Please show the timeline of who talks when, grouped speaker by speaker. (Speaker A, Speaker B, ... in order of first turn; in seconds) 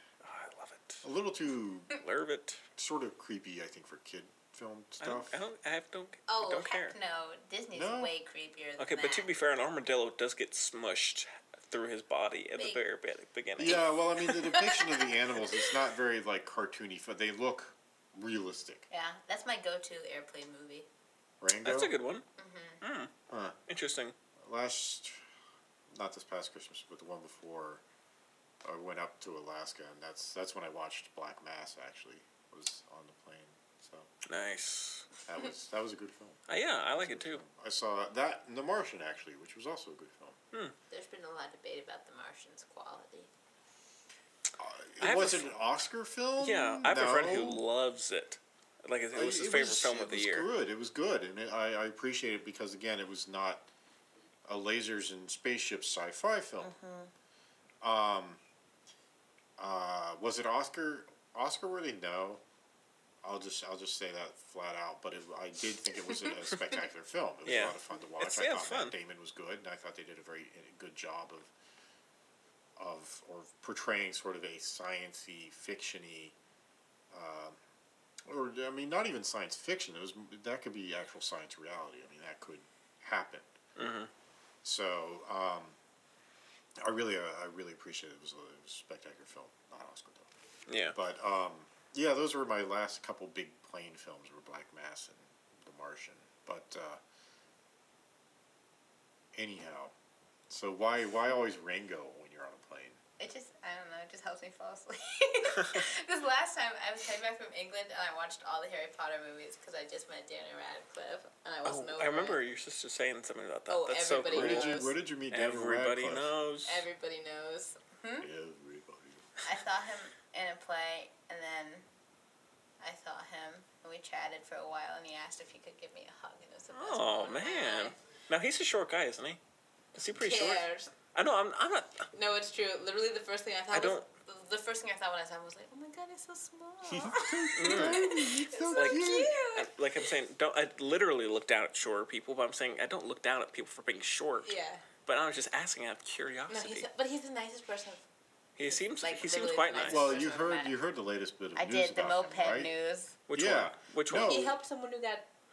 Speaker A: 0.2-1.0, 1.9-2.6, 5.0-6.9, 8.8-13.8, 21.6-22.3, 22.8-23.1, 23.7-24.1, 34.3-35.1, 36.5-37.4, 45.0-45.5, 46.4-50.5, 67.5-68.9, 83.8-84.1, 90.7-91.0, 111.7-116.8, 126.7-129.4, 129.9-132.1, 133.7-134.1, 137.6-144.5, 145.1-146.9, 148.6-150.2, 153.3-154.5
Speaker B: 1.0-2.0, 2.8-5.4, 7.7-8.1, 13.6-18.9, 21.4-21.9, 23.3-23.6, 24.4-25.2, 25.9-27.8, 28.6-34.1, 35.3-40.4, 44.6-47.6, 49.1-53.7, 54.5-56.7, 57.8-58.4, 59.6-62.4, 63.2-71.5, 72.8-76.4, 77.1-77.6, 78.2-83.5, 84.6-85.8, 86.8-90.3, 90.9-97.0, 99.3-99.9, 100.5-103.0, 114.3-116.3, 118.2-119.3, 136.9-139.3, 149.9-152.7, 153.3-154.6
Speaker C: 6.3-9.3, 13.6-15.7, 18.9-20.9, 22.4-22.8, 40.9-43.3, 56.6-57.1, 103.2-112.4, 113.7-114.9, 116.7-118.3, 119.4-121.9, 122.8-128.0, 130.2-130.9, 132.1-139.7, 144.4-144.8, 146.5-148.0, 148.7-150.8, 151.6-153.2, 154.1-155.3